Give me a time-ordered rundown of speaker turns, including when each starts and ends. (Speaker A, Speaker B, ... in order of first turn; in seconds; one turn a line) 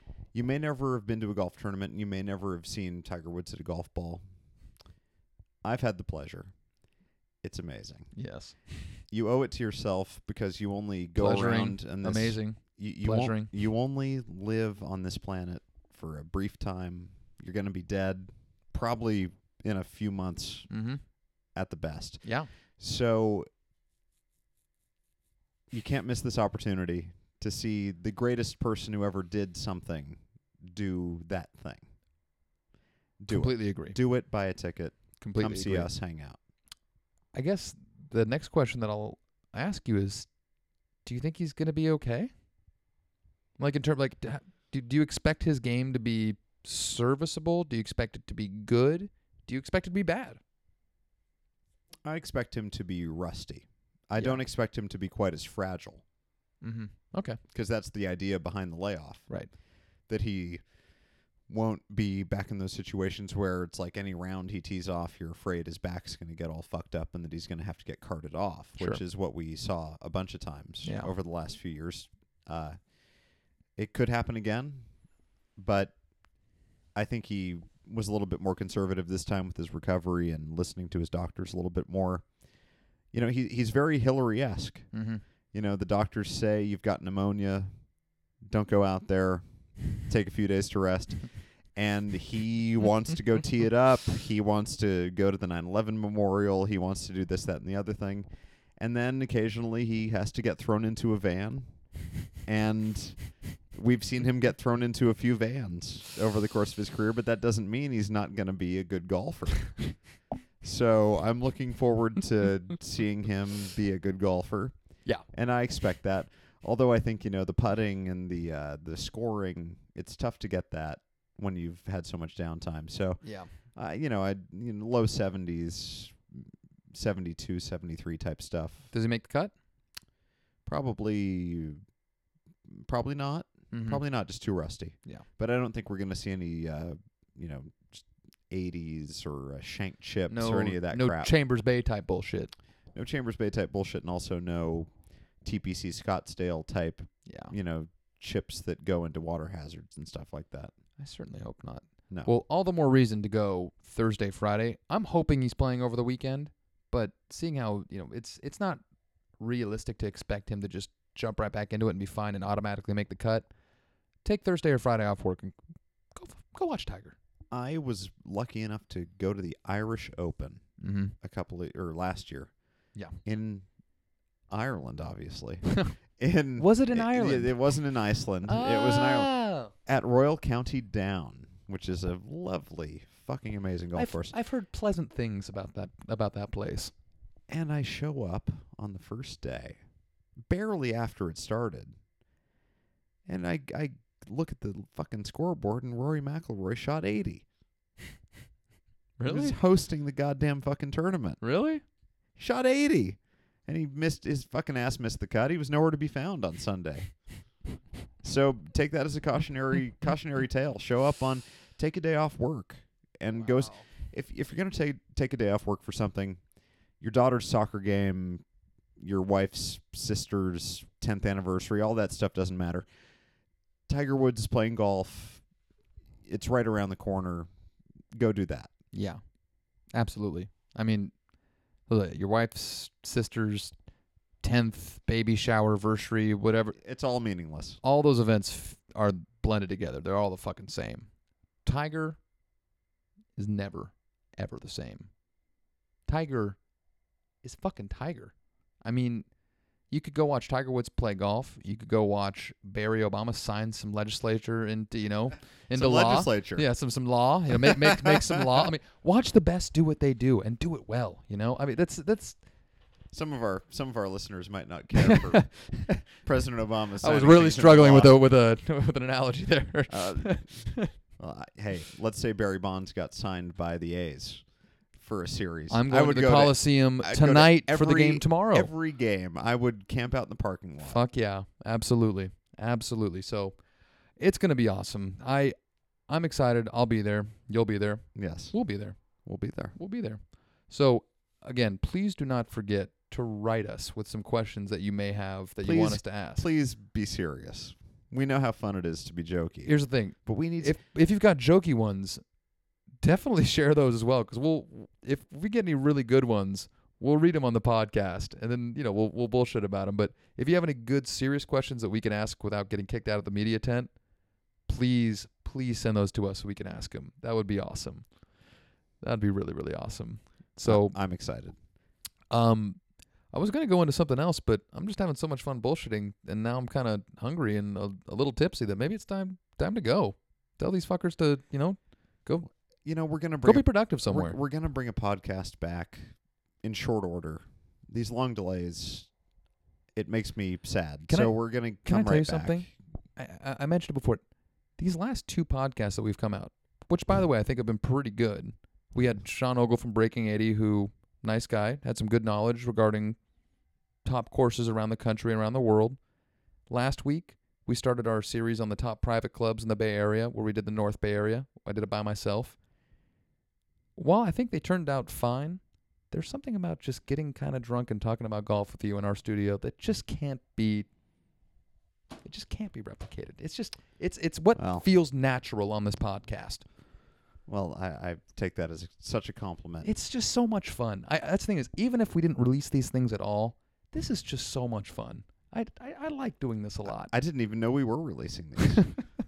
Speaker A: 0.3-4.2
Speaker A: 5.6-6.5
Speaker A: 7.4-8.1
Speaker B: 8.2-8.5
Speaker A: 9.1-20.7
Speaker B: 11.2-13.5
Speaker B: 20.7-21.0
Speaker A: 21.5-23.4
Speaker B: 22.2-22.5
Speaker A: 25.7-31.9
Speaker A: 33.2-36.4
Speaker B: 33.3-34.0
Speaker B: 35.2-35.9
Speaker B: 37.3-40.3
Speaker B: 41.0-42.3
Speaker B: 43.6-50.4
Speaker A: 52.0-56.0
Speaker B: 56.6-57.4
Speaker A: 57.5-59.3
Speaker A: 60.1-60.6
Speaker A: 61.5-72.8
Speaker B: 70.8-71.1
Speaker A: 73.8-74.9
Speaker A: 75.6-75.9
Speaker A: 77.0-82.3
Speaker A: 83.1-84.9
Speaker B: 84.9-85.2
Speaker A: 85.5-87.7
Speaker A: 88.5-89.4
Speaker A: 90.0-98.3
Speaker A: 98.8-101.7
Speaker A: 102.4-110.0
Speaker A: 110.6-128.9
Speaker B: 123.2-123.5
Speaker B: 128.9-129.5
Speaker A: 130.7-131.8
Speaker A: 132.7-141.3
Speaker B: 133.7-134.0
Speaker B: 140.3-142.5
Speaker A: 142.9-144.9
Speaker A: 145.4-150.7
Speaker B: 147.3-147.5
Speaker B: 151.0-158.8
Speaker A: 152.1-152.3
Speaker B: 159.4-163.5
Speaker B: 164.2-165.6
Speaker B: 166.1-167.2
Speaker A: 167.5-170.6
Speaker B: 170.8-171.1
Speaker A: 171.2-172.5
Speaker A: 173.2-173.7
Speaker A: 174.5-184.3
Speaker B: 175.7-175.9
Speaker B: 176.6-177.6
Speaker B: 178.5-179.7
Speaker B: 183.9-186.9
Speaker A: 187.5-189.8
Speaker A: 190.5-191.9
Speaker A: 193.3-197.4
Speaker B: 199.2-199.6
Speaker A: 199.3-201.4
Speaker B: 201.4-201.8
Speaker A: 202.4-207.1
Speaker A: 208.2-216.4
Speaker B: 213.4-213.8
Speaker A: 217.0-218.4
Speaker A: 219.0-222.8
Speaker A: 223.9-225.4
Speaker A: 226.3-227.5
Speaker A: 228.1-228.7
Speaker B: 228.9-229.2
Speaker B: 229.9-231.1
Speaker B: 231.9-233.7
Speaker B: 234.4-236.8
Speaker A: 236.8-237.8
Speaker B: 237.8-241.1
Speaker B: 241.7-242.2
Speaker B: 243.4-245.1
Speaker B: 246.1-246.6
Speaker B: 247.4-248.3
Speaker B: 248.8-249.3
Speaker B: 249.9-262.4
Speaker A: 255.7-256.7
Speaker A: 257.6-258.1
Speaker A: 263.1-265.5
Speaker B: 265.0-266.0
Speaker A: 266.1-268.2
Speaker B: 267.0-270.9
Speaker A: 269.9-281.0
Speaker B: 275.7-278.7
Speaker B: 280.8-283.6
Speaker B: 284.2-285.6
Speaker B: 286.1-289.0
Speaker A: 288.1-288.6
Speaker A: 289.2-289.8
Speaker B: 289.8-296.5
Speaker A: 295.6-300.8
Speaker B: 299.6-302.2
Speaker B: 303.0-313.9
Speaker B: 314.7-318.1
Speaker B: 319.0-321.0
Speaker A: 320.6-321.6
Speaker B: 322.3-332.5
Speaker A: 332.9-339.1
Speaker B: 333.4-334.4
Speaker A: 339.9-342.7
Speaker B: 341.1-344.2
Speaker B: 344.8-353.2
Speaker B: 354.0-356.0
Speaker B: 356.7-362.6
Speaker B: 364.0-370.9
Speaker B: 372.2-376.6
Speaker A: 374.6-374.9
Speaker A: 377.5-379.9
Speaker B: 379.8-387.1
Speaker A: 386.9-389.0
Speaker B: 388.7-389.0